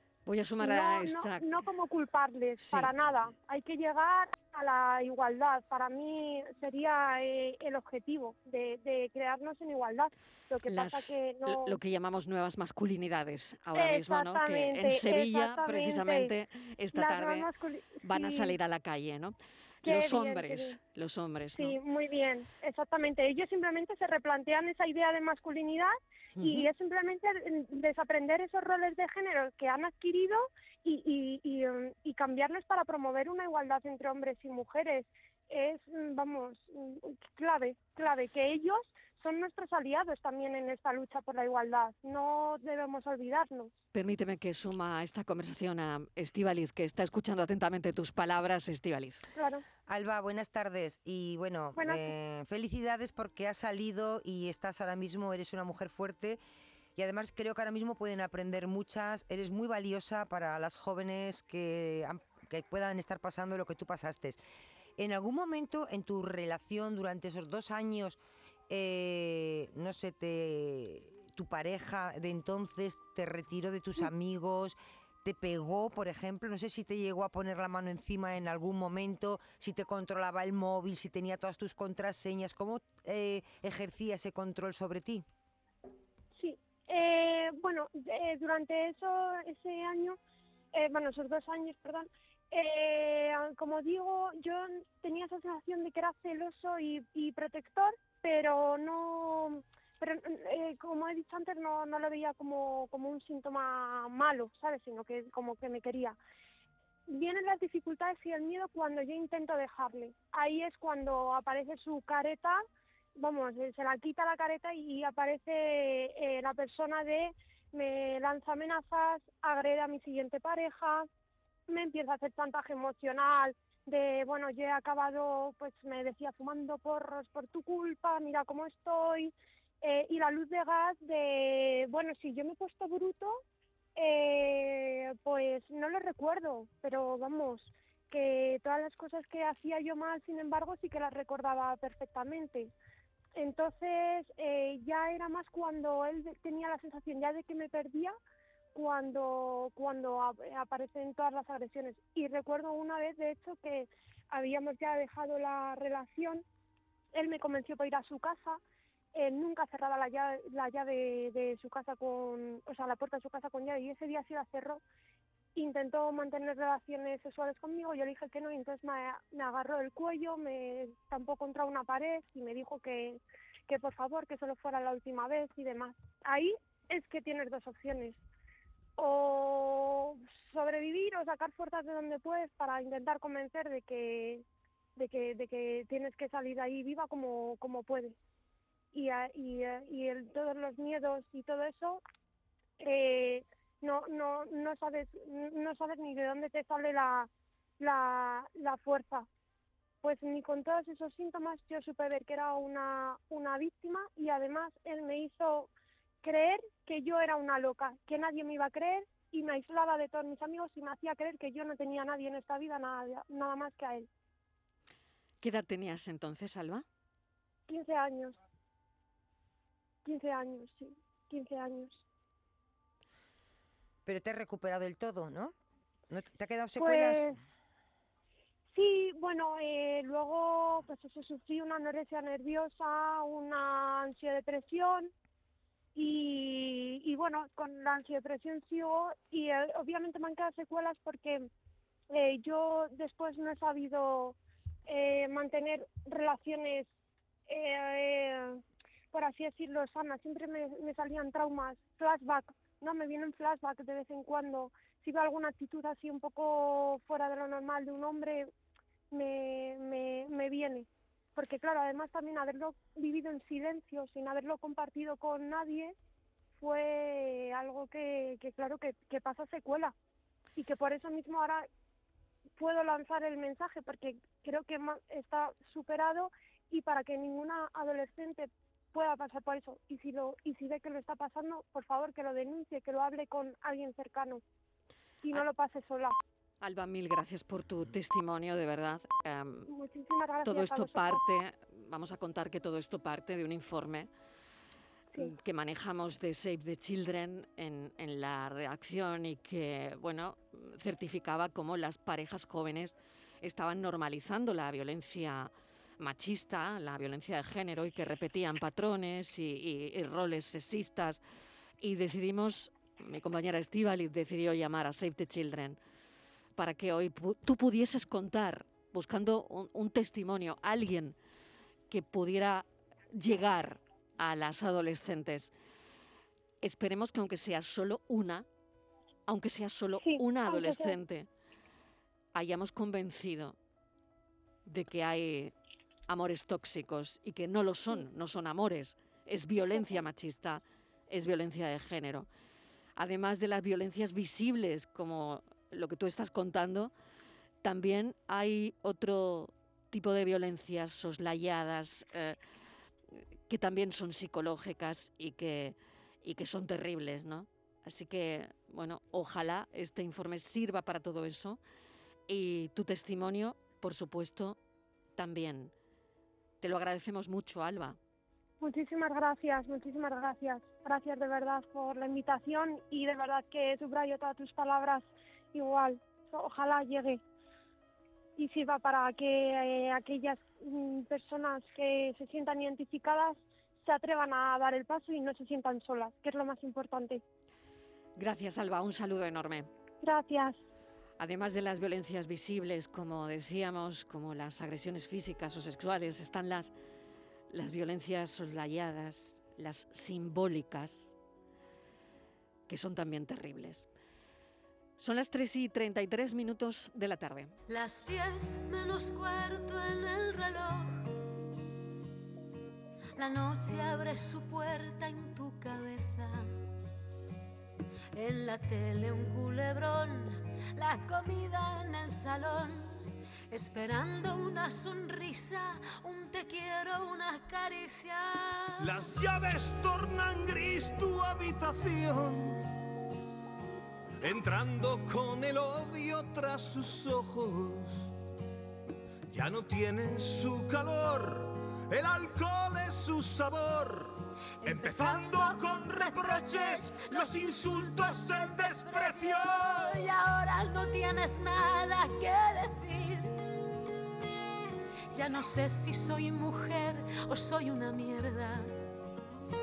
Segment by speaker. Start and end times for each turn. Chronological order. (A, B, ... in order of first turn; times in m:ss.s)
0:00.2-0:01.6 A
0:00.6-0:11.8 B
0:02.6-0:02.9 A
0:10.7-0:17.5 A
0:13.8-0:16.3 B
0:16.9-0:18.6 B
0:18.0-0:21.8 A
0:19.8-0:20.8 B
0:21.6-0:43.7 B
0:26.4-0:26.7 A
0:43.9-0:49.3 A
0:49.4-0:49.6 B
0:49.9-0:56.4 C
0:51.8-0:52.1 B
0:57.0-1:04.4 C
1:05.0-1:25.2 C
1:26.4-1:30.2 B
1:30.7-1:46.2 B
1:47.1-1:52.6 B
1:53.2-2:01.1 B
2:01.7-2:13.4 B
2:14.0-2:22.7 B
2:23.4-2:28.2 B
2:28.7-2:36.4 B
2:37.1-2:38.6 B
2:39.1-2:44.8 B
2:45.6-2:58.2 B
2:59.0-3:04.4 B
3:05.0-3:08.2 B
3:08.9-3:12.0 B
3:12.8-3:17.3 B
3:17.8-3:19.3 B
3:20.0-3:25.7 B
3:26.2-3:34.1 B
3:35.4-3:36.8 A
3:37.7-3:38.4 B
3:40.0-3:42.0 B
3:44.1-3:45.5 C
3:46.1-3:47.3 C
3:46.8-3:47.4 B
3:48.7-3:55.1 B
3:56.0-4:01.5 B
4:02.1-4:06.9 B
4:07.5-4:18.5 B
4:19.1-4:26.0 B
4:26.6-4:29.9 B
4:30.6-4:31.6 B
4:32.6-4:44.4 B
4:45.2-4:46.2 B
4:46.6-4:49.7 A
4:49.7-4:51.2 B
4:50.4-4:54.1 A
4:55.2-5:11.2 A
5:11.8-5:15.8 A
5:16.6-5:21.2 A
5:21.9-5:25.5 A
5:26.6-5:28.5 A
5:29.3-5:31.3 A
5:30.0-5:31.0 B
5:32.3-5:33.6 A
5:34.7-5:35.5 A
5:36.1-5:42.3 A
5:43.0-5:46.9 A
5:47.6-5:52.4 A
5:53.5-6:01.6 A
6:02.3-6:04.6 A
6:05.2-6:05.7 A
6:06.6-6:08.0 A
6:08.6-6:17.2 B
6:18.4-6:27.2 B
6:28.2-6:29.7 A
6:30.0-6:30.6 B
6:31.2-6:36.7 A
6:37.5-6:41.2 A
6:42.7-6:43.9 A
6:45.0-6:47.5 A
6:47.7-6:50.9 D
6:53.2-6:56.5 D
6:58.1-7:03.0 D
7:03.5-7:08.9 D
7:08.8-7:12.6 E
7:14.2-7:18.1 E
7:19.3-7:30.0 E
7:24.6-7:33.4 D
7:35.1-7:38.7 D